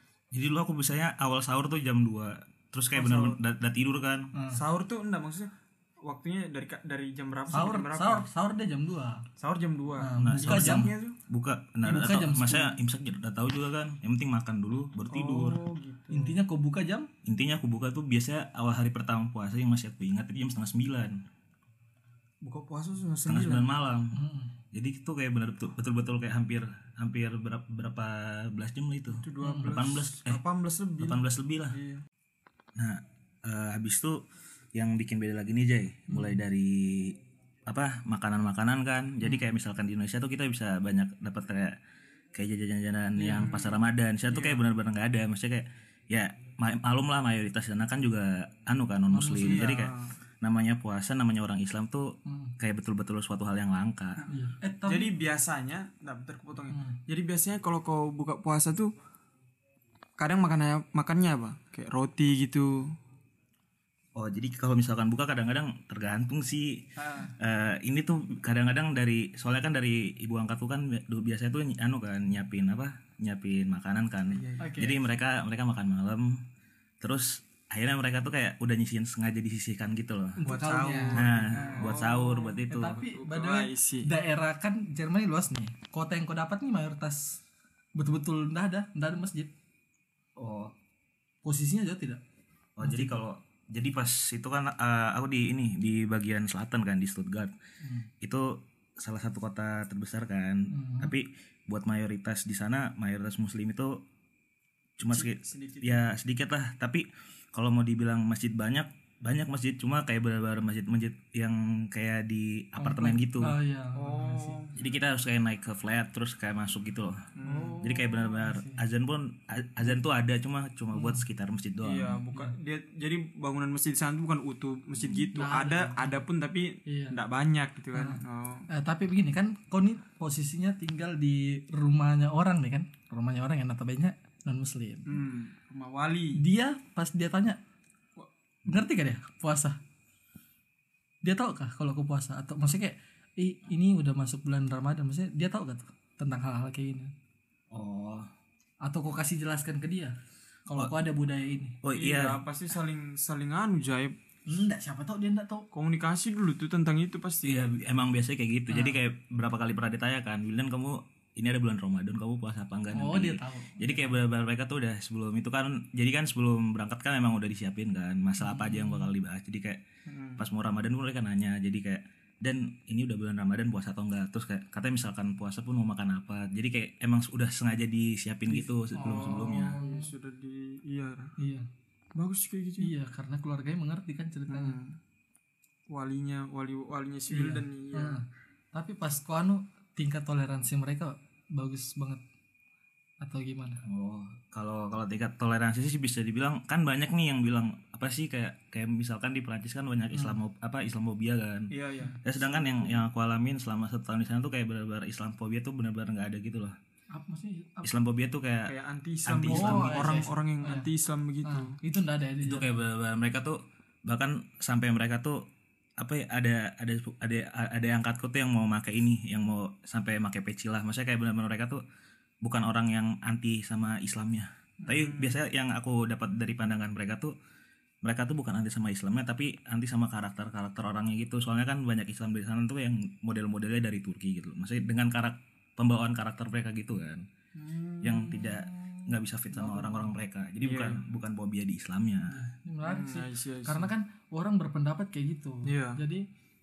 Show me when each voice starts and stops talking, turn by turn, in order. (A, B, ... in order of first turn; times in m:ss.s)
0:00.3-0:04.3 A
0:02.9-0:03.4 B
0:04.3-0:04.6 C
0:04.5-0:05.5 B
0:06.0-0:08.2 B
0:07.5-0:09.3 C
0:09.4-0:11.2 B
0:10.0-0:10.9 C
0:10.2-0:15.6 A
0:11.8-0:12.8 C
0:15.1-0:16.4 B
0:16.1-0:17.1 C
0:17.2-0:21.2 A
0:22.4-0:23.7 B
0:23.2-0:24.2 A
0:24.1-0:24.5 C
0:24.7-0:30.4 A
0:29.1-0:32.0 B
0:29.4-0:29.8 C
0:31.0-0:31.8 A
0:32.8-0:41.8 A
0:36.1-0:36.4 C
0:42.3-0:54.2 A
0:43.2-0:43.5 C
0:43.3-0:44.6 B
0:49.1-0:49.8 C
0:49.3-0:50.1 B
0:52.2-0:52.5 C
0:54.3-0:55.1 C
0:54.8-0:58.9 B
0:56.7-0:57.0 C
1:00.2-1:03.0 B
1:04.1-1:06.9 A
1:07.0-1:07.3 C
1:07.4-1:16.4 A
1:14.3-1:14.7 B
1:14.6-1:15.0 C
1:17.0-1:20.4 A
1:20.4-1:22.0 C
1:20.5-1:24.1 B
1:21.1-1:23.0 A
1:22.7-1:27.4 C
1:28.0-1:29.5 C
1:30.4-1:30.7 A
1:31.4-1:32.2 C
1:32.8-1:37.5 A
1:32.8-1:33.1 C
1:37.8-1:38.1 C
1:38.2-1:44.0 A
1:40.7-1:41.1 C
1:45.0-1:53.6 A
1:45.1-1:46.1 B
1:52.8-1:54.6 C
1:53.9-1:54.8 B
1:54.8-2:02.2 A
1:57.4-1:57.8 B
1:57.4-1:58.8 C
2:00.9-2:01.2 C
2:01.8-2:08.7 B
2:05.3-2:06.2 C
2:06.8-2:07.2 C
2:07.9-2:15.1 C
2:15.1-2:16.4 B
2:16.4-2:17.6 C
2:18.6-2:19.8 C
2:21.2-2:27.1 C
2:27.7-2:28.3 A
2:28.8-2:30.1 C
2:30.7-2:31.8 C
2:31.8-2:32.4 A
2:31.9-2:34.2 B
2:34.5-2:35.7 C
2:35.7-2:37.6 B
2:37.4-2:49.8 A
2:38.7-2:39.0 C
2:42.9-2:44.2 C
2:48.4-2:49.1 C
2:50.0-2:50.4 B
2:50.4-2:59.8 A
2:58.9-3:00.1 C
2:59.0-3:01.3 B
3:01.4-3:01.7 C
3:02.2-3:02.9 B
3:02.8-3:04.8 C
3:04.5-3:05.0 B
3:05.9-3:08.2 B
3:07.3-3:12.2 C
3:13.2-3:13.8 C
3:13.8-3:21.7 A
3:20.1-3:20.4 C
3:21.7-3:22.2 B
3:22.2-3:26.8 A
3:27.1-3:27.9 C
3:27.8-3:30.2 A
3:28.6-3:31.8 B
3:29.4-3:30.9 C
3:31.4-3:32.7 C
3:32.4-3:35.4 A
3:36.0-3:41.8 A
3:42.4-3:47.3 A
3:44.8-3:45.4 B
3:48.0-3:57.2 A
3:57.6-3:58.5 B
3:58.0-4:02.5 A
3:58.8-4:00.1 C
4:00.6-4:01.0 B
4:02.6-4:06.2 C
4:02.8-4:03.9 B
4:05.6-4:06.0 B